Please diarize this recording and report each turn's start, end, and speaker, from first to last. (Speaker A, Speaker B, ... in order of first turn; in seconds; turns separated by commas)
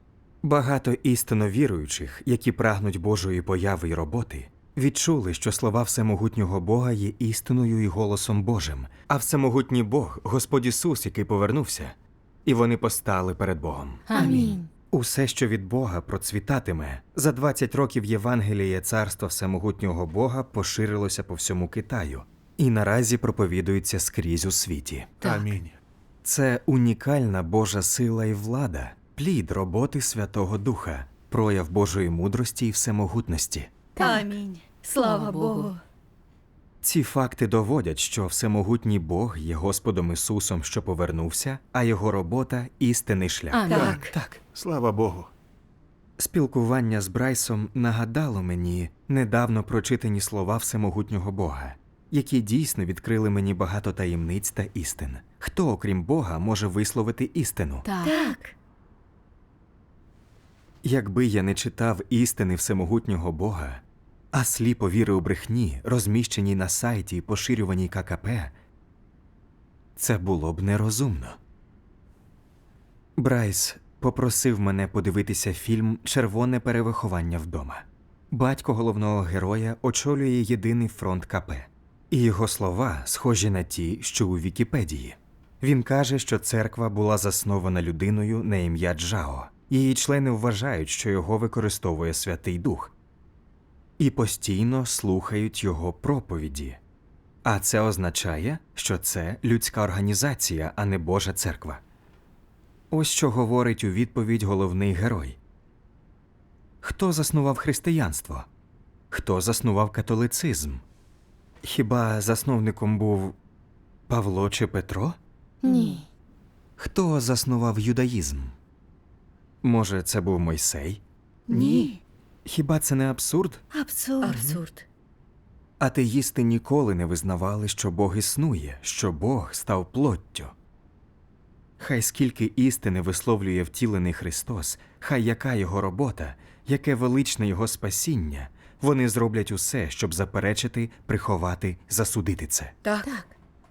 Speaker A: 0.4-25.2, Speaker B: 14.1-14.7, Speaker C: 14.1-14.6, Speaker B: 25.2-25.5, Speaker D: 25.2-25.8, Speaker A: 26.2-33.7, Speaker B: 34.0-35.7, Speaker C: 34.0-35.8, Speaker A: 36.8-44.4, Speaker B: 43.5-44.1, Speaker C: 43.7-44.1, Speaker D: 43.7-45.3, Speaker A: 46.2-57.9, Speaker B: 57.9-58.5, Speaker C: 58.0-58.5, Speaker A: 60.8-68.5, Speaker A: 70.0-71.4, Speaker A: 73.2-92.9, Speaker A: 94.0-96.8, Speaker A: 97.4-101.8, Speaker A: 102.9-105.4, Speaker A: 106.8-108.5, Speaker A: 109.1-110.8, Speaker A: 111.6-113.4, Speaker A: 114.1-115.2, Speaker B: 115.6-116.0, Speaker C: 115.6-116.0, Speaker A: 116.8-118.5, Speaker A: 119.6-121.0, Speaker C: 121.5-122.0, Speaker B: 121.5-121.9, Speaker A: 122.5-123.6, Speaker C: 123.7-124.9, Speaker B: 124.2-124.5, Speaker A: 124.3-124.5, Speaker A: 125.8-130.5, Speaker A: 131.8-142.7, Speaker C: 142.8-143.1, Speaker B: 143.0-143.3